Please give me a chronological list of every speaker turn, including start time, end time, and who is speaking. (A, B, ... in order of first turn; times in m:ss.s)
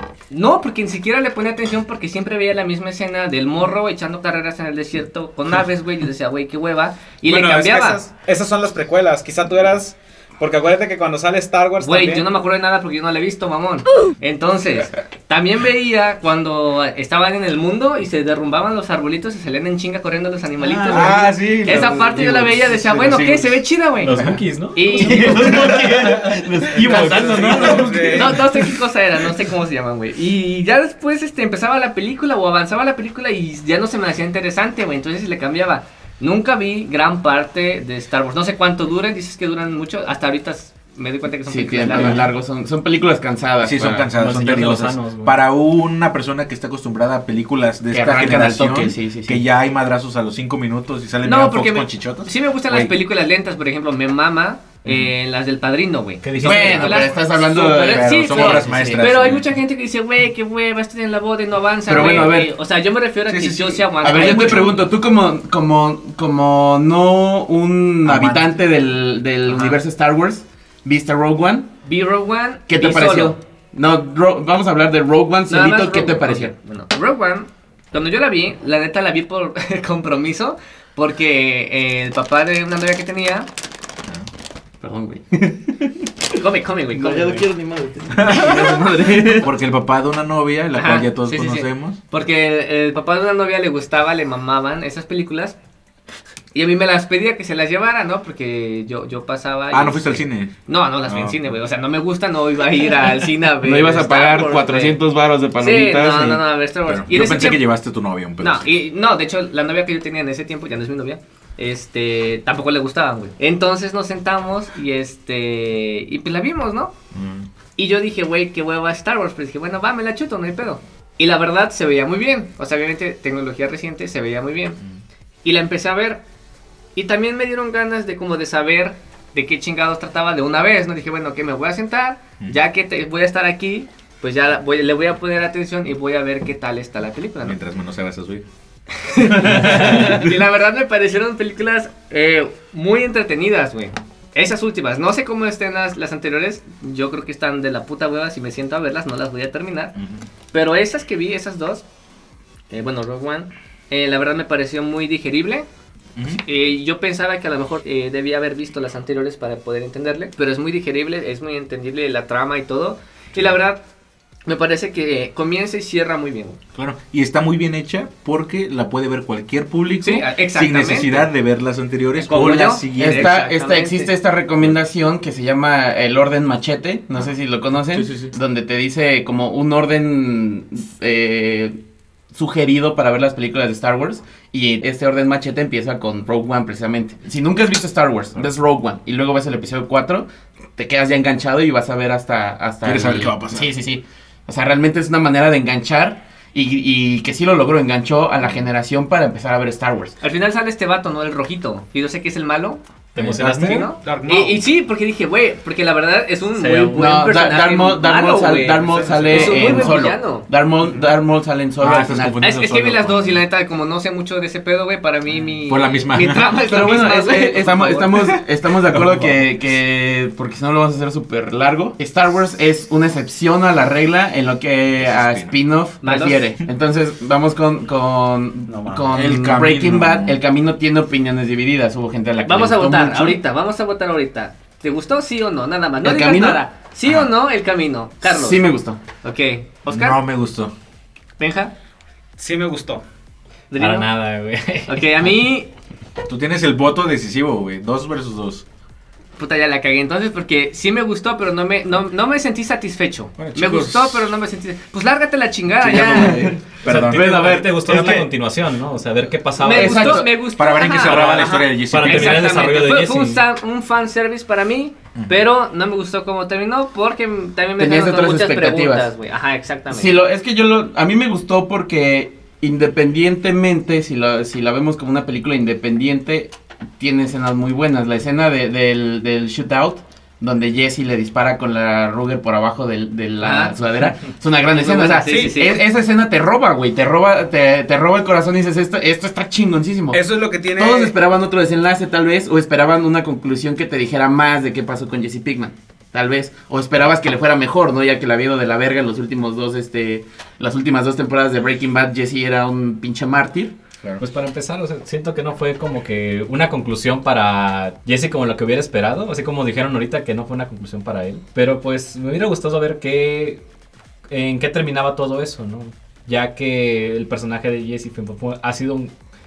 0:00.3-0:08.0 A
0:07.3-0:12.3 B
0:11.8-0:24.2 A
0:20.6-0:23.6 C
0:24.0-0:28.4 D
0:24.8-0:25.9 A
0:25.0-0:27.9 E
0:25.3-0:25.9 C
0:26.8-0:28.4 B
0:26.9-0:28.2 C
0:28.1-0:42.3 A
0:41.5-0:44.1 E
0:43.6-0:52.9 C
0:44.2-0:45.4 D
0:47.9-0:49.4 E
0:51.2-1:04.9 A
0:56.2-0:57.2 D
0:56.4-0:59.1 E
0:57.5-0:59.5 C
1:01.9-1:02.5 E
1:01.9-1:02.3 C
1:03.3-1:04.8 C
1:04.0-1:11.7 E
1:08.0-1:08.5 C
1:09.5-1:09.8 A
1:11.8-1:13.4 A
1:12.7-1:16.5 E
1:15.5-1:23.5 A
1:24.8-1:26.1 E
1:26.4-1:27.5 A
1:26.9-1:29.5 E
1:28.1-1:32.0 C
1:30.8-1:35.6 A
1:36.5-1:45.0 A
1:39.7-1:40.5 C
1:41.1-1:41.4 C
1:43.6-1:46.4 E
1:45.6-1:47.6 A
1:46.8-1:48.8 C
1:48.4-1:56.9 A
1:57.1-1:57.5 C
1:57.8-2:04.8 A
2:05.4-2:06.2 A
2:07.0-2:17.6 A
2:17.4-2:18.4 C
2:19.0-2:30.0 A
2:19.4-2:20.1 E
2:19.5-2:20.3 C
2:30.0-2:30.3 C
2:30.5-2:31.8 A
2:32.7-2:35.7 A
2:36.2-2:36.4 C
2:36.4-2:43.8 A
2:44.5-2:46.6 A
2:46.8-2:53.4 C
2:50.0-2:51.3 A
2:52.2-2:54.1 A
2:53.0-3:01.8 E
2:57.9-2:58.3 C
3:02.3-3:20.2 E
3:12.8-3:13.7 C
3:20.2-3:22.8 A
3:23.2-3:23.9 D
3:23.2-3:23.9 C
3:23.4-3:30.5 A
3:24.0-3:24.6 B
3:26.6-3:27.2 D
3:26.9-3:32.4 E
3:28.8-3:29.7 B
3:30.8-3:31.1 B
3:31.8-3:33.4 C
3:32.4-3:38.4 A
3:35.7-3:36.5 C
3:36.7-3:53.4 E
3:38.9-3:39.4 C
3:45.0-3:45.6 C
3:46.0-3:46.5 A
3:48.7-3:49.1 B
3:49.1-3:50.4 C
3:52.4-3:58.6 A
3:56.0-3:56.6 E
3:58.2-3:59.0 E
3:59.2-4:00.2 A
3:59.9-4:00.7 C
4:01.4-4:01.7 A
4:02.4-4:03.0 B
4:03.7-4:04.1 A
4:03.8-4:05.3 D
4:04.9-4:05.7 A
4:06.3-4:08.6 C
4:09.4-4:16.5 A
4:13.4-4:14.3 C
4:15.8-4:18.2 C
4:16.1-4:16.5 E
4:16.8-4:20.3 D
4:17.1-4:18.2 E
4:19.6-4:30.2 A
4:19.7-4:20.3 E
4:20.4-4:22.6 C
4:21.7-4:23.4 D
4:27.8-4:29.1 E
4:29.9-4:50.2 E
4:43.4-4:43.8 A
4:44.7-4:45.8 A
4:45.2-4:45.7 B
4:50.1-4:51.1 B
4:50.8-5:03.7 E
5:04.2-5:13.6 D
5:14.3-5:19.1 D